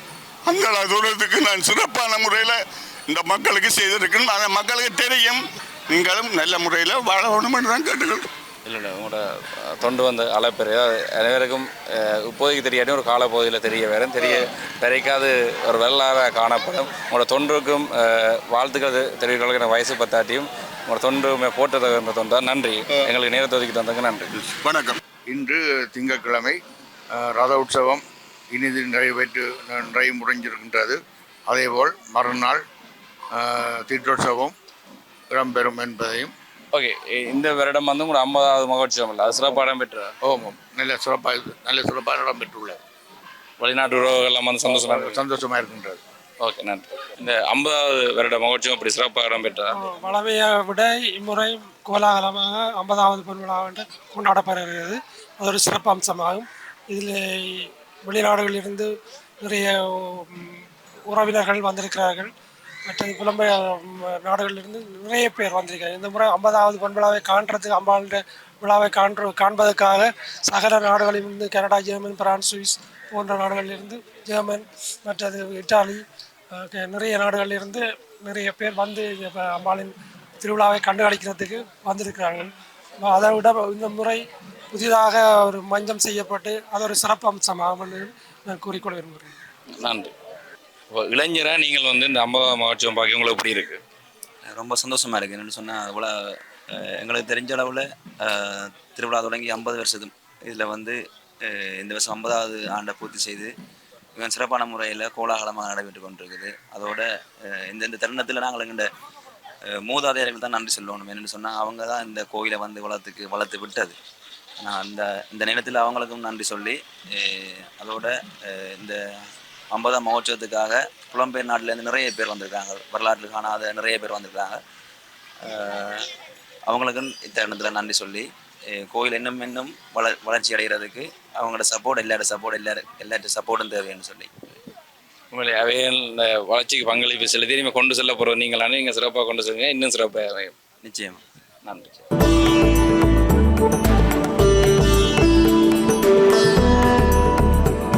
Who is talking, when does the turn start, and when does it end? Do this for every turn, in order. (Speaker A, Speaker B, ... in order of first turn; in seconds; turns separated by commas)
Speaker A: 0.5-8.3, Speaker B: 8.7-24.3, Speaker A: 24.4-25.0, Speaker C: 25.3-26.6, Speaker C: 27.1-32.6, Speaker C: 33.3-34.5, Speaker C: 35.3-36.3, Speaker B: 36.7-40.1, Speaker C: 40.2-42.8, Speaker B: 43.6-45.2, Speaker C: 44.6-46.0, Speaker B: 46.4-49.8, Speaker D: 49.8-58.9, Speaker D: 59.4-62.3, Speaker D: 62.9-82.5, Speaker D: 83.0-84.2, Speaker D: 84.7-89.4, Speaker B: 89.8-90.1, Speaker B: 90.9-93.8, Speaker E: 94.5-103.5, Speaker E: 104.2-108.9, Speaker E: 109.7-114.0, Speaker E: 114.6-119.0, Speaker E: 119.7-124.6, Speaker E: 125.4-126.1, Speaker E: 126.7-134.3, Speaker B: 135.3-140.5, Speaker E: 140.8-141.2, Speaker B: 141.7-142.0